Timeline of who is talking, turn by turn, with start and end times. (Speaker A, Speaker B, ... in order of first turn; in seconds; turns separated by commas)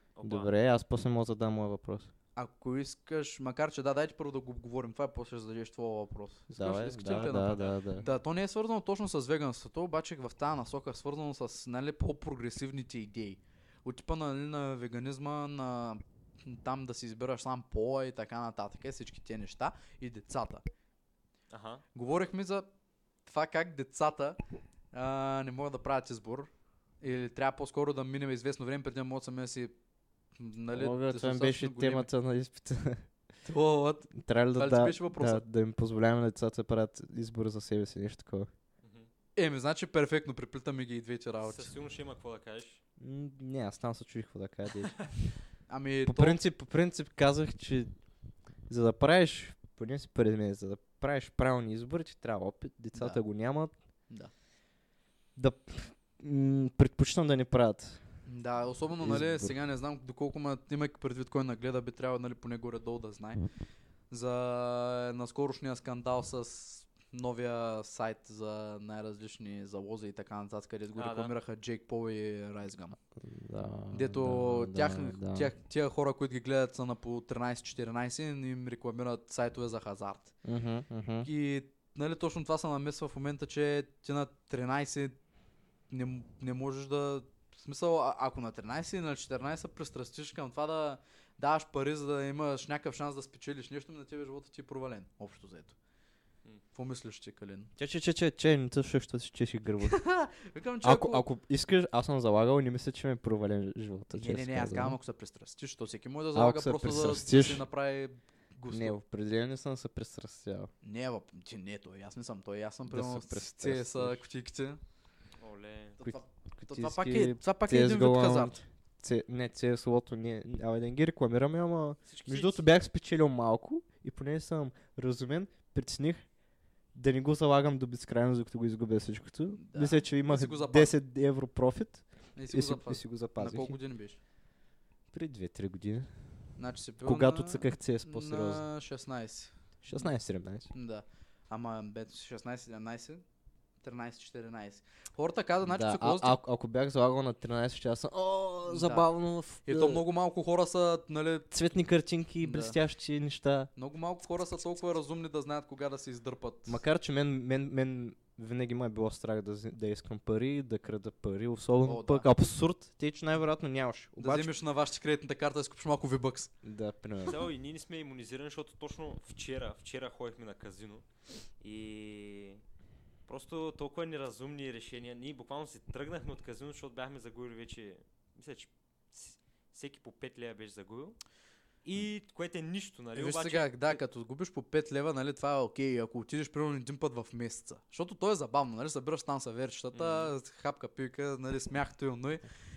Speaker A: 0.1-0.5, Speaker B: 0.2-2.1, Speaker C: 2.4-20.6, Speaker B: 6.5-8.0, Speaker A: 7.0-8.1, Speaker A: 21.5-21.8, Speaker C: 21.9-22.7, Speaker C: 23.2-24.4, Speaker C: 24.9-26.5, Speaker C: 27.0-29.7, Speaker C: 30.4-32.1, Speaker B: 30.7-33.1, Speaker C: 33.4-35.4, Speaker B: 34.1-38.5, Speaker A: 38.8-39.1, Speaker C: 39.4-41.7, Speaker A: 41.4-42.8, Speaker B: 43.0-45.3, Speaker C: 45.7-46.4, Speaker B: 46.0-47.9, Speaker B: 48.7-53.7, Speaker C: 52.9-53.2, Speaker B: 55.4-58.0, Speaker C: 58.2-63.5, Speaker B: 59.0-59.5, Speaker C: 64.1-73.0, Speaker A: 71.0-71.3, Speaker B: 73.2-75.5, Speaker C: 73.9-80.3, Speaker B: 80.4-81.3, Speaker C: 81.2-85.2, Speaker C: 85.9-95.7, Speaker C: 96.7-97.7, Speaker B: 97.8-100.0, Speaker C: 99.8-101.2, Speaker B: 100.8-105.0, Speaker C: 104.2-109.0, Speaker B: 106.3-107.6, Speaker B: 108.7-110.7, Speaker C: 110.8-114.8, Speaker B: 112.9-114.2, Speaker A: 115.4-116.0, Speaker C: 116.0-118.6, Speaker B: 116.0-126.3, Speaker A: 122.1-122.6, Speaker B: 126.9-133.8, Speaker C: 129.6-131.0, Speaker C: 132.3-134.2, Speaker B: 135.1-136.1, Speaker C: 136.6-140.1, Speaker B: 137.0-138.6, Speaker B: 139.8-140.7, Speaker C: 140.7-143.2, Speaker C: 143.8-146.4, Speaker B: 145.7-150.0, Speaker C: 148.7-149.1, Speaker C: 149.6-151.5, Speaker B: 151.5-153.7, Speaker C: 152.4-152.8, Speaker C: 153.8-156.8, Speaker B: 156.7-164.5, Speaker C: 161.8-162.3, Speaker C: 164.2-166.5, Speaker B: 166.6-167.4, Speaker A: 167.3-171.0, Speaker A: 171.6-172.6, Speaker A: 173.3-181.2, Speaker A: 181.8-184.0, Speaker C: 183.1-192.4, Speaker A: 189.9-190.3